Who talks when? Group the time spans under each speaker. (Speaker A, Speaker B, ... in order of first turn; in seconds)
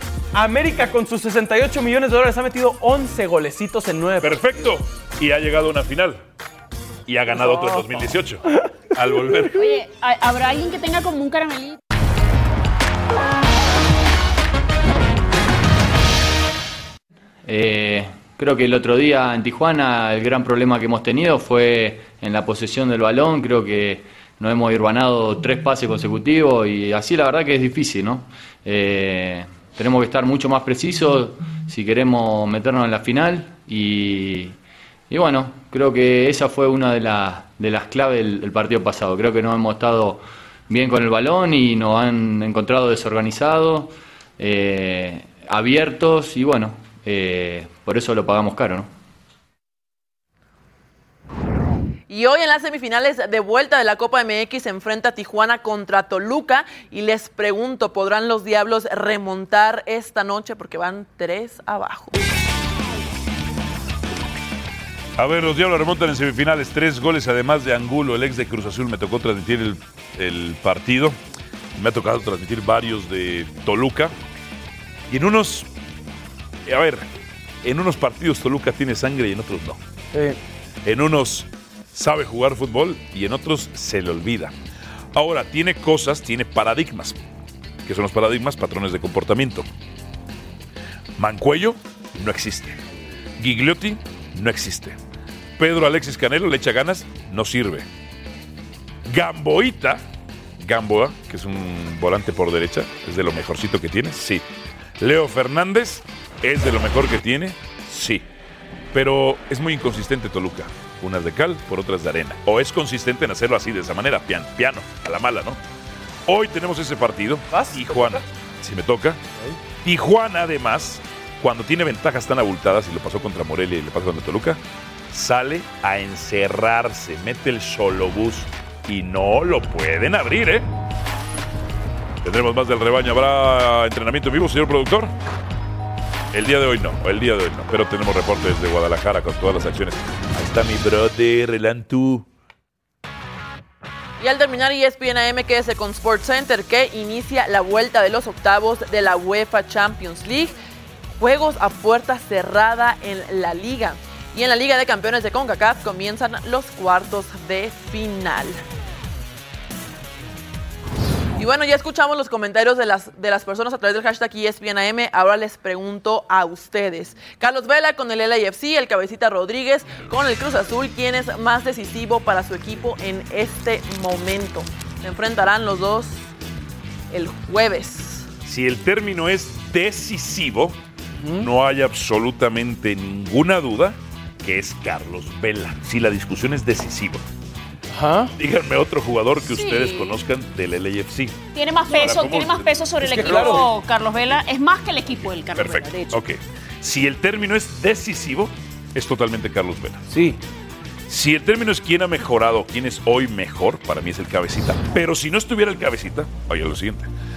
Speaker A: 0.3-4.4, 7.3-8.0, 80.1-80.4, 117.5-118.2, 181.2-181.5, 187.9-188.3, 193.0-193.7, 200.1-200.4
Speaker B: 4.2-6.2, 7.1-9.8, 65.2-71.2, 71.8-74.1, 75.1-75.7, 76.7-77.1, 77.6-79.8, 80.8-84.5, 85.1-87.2, 87.9-89.7, 91.2-92.8, 93.4-95.0, 95.6-97.9, 99.1-100.0, 100.6-104.5, 105.0-108.2, 108.9-115.6, 116.3-119.2, 119.8-130.7, 132.2-135.1, 136.3-142.3, 178.4-180.8, 181.4-187.2, 188.4-193.7, 195.6-200.1, 201.1-207.1
Speaker C: 9.5-11.8, 189.4-190.2, 191.5-196.2
Speaker D: 17.4-34.6, 35.1-48.9
Speaker E: 52.1-62.2, 144.2-150.6, 151.2-158.6, 161.4-176.2, 177.1-178.3